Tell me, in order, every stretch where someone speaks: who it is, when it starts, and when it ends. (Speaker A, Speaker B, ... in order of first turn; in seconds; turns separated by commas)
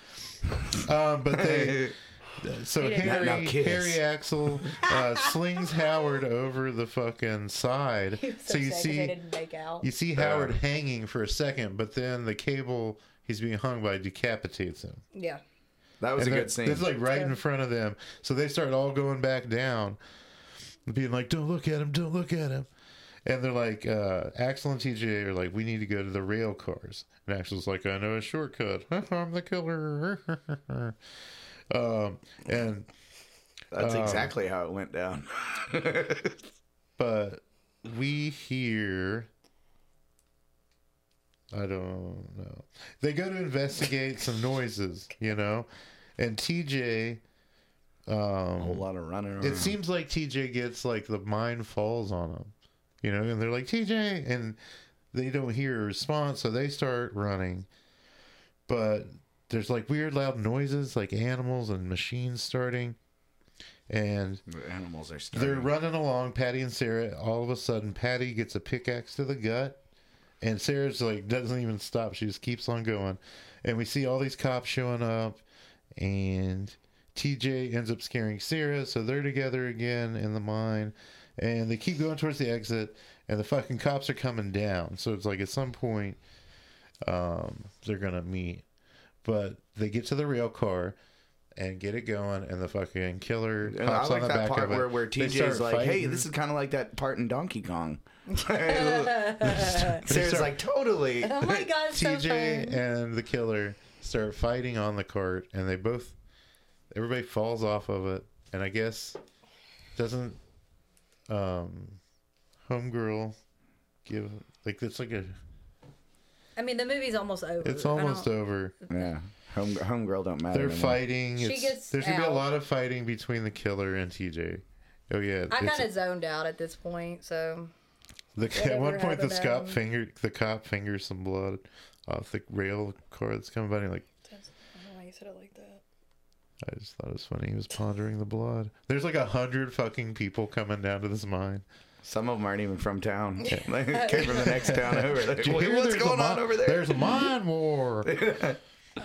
Speaker A: 0.5-1.9, Speaker B: 0.8-9.2, Speaker C: 2.8-3.4, Speaker A: 3.0-4.0, Speaker C: 4.8-5.3, Speaker C: 8.2-9.9, Speaker B: 9.8-15.0, Speaker A: 10.2-10.5, Speaker C: 15.1-15.4, Speaker A: 16.0-16.9, Speaker B: 16.1-20.0, Speaker C: 17.1-17.3, Speaker B: 20.9-22.7, Speaker B: 23.2-31.0, Speaker B: 31.7-32.9, Speaker A: 33.7-36.4, Speaker B: 33.7-34.3, Speaker B: 37.0-39.3, Speaker B: 41.5-47.2, Speaker B: 48.1-48.8, Speaker A: 48.6-49.8, Speaker B: 49.4-54.6, Speaker B: 55.1-57.7, Speaker B: 58.7-63.0, Speaker B: 63.9-64.4, Speaker A: 64.5-65.7, Speaker B: 65.3-69.8, Speaker B: 70.4-75.4, Speaker B: 76.0-86.2, Speaker B: 87.0-88.6, Speaker B: 89.2-91.0, Speaker B: 91.5-96.3, Speaker A: 93.7-101.7, Speaker C: 98.3-100.0, Speaker B: 99.4-100.6, Speaker C: 101.2-102.8, Speaker B: 101.9-106.2, Speaker B: 106.9-109.2, Speaker B: 110.0-110.4, Speaker B: 111.3-112.0, Speaker B: 112.7-113.4, Speaker B: 114.0-115.3, Speaker C: 116.6-118.3, Speaker B: 117.6-118.7, Speaker A: 118.9-121.0, Speaker B: 120.5-125.9, Speaker C: 121.4-122.5, Speaker C: 125.5-127.7, Speaker B: 128.3-134.1, Speaker C: 128.5-129.8, Speaker C: 134.3-135.8, Speaker B: 136.6-141.6, Speaker A: 142.0-147.1, Speaker C: 143.5-144.7, Speaker B: 143.5-148.2, Speaker A: 148.1-148.6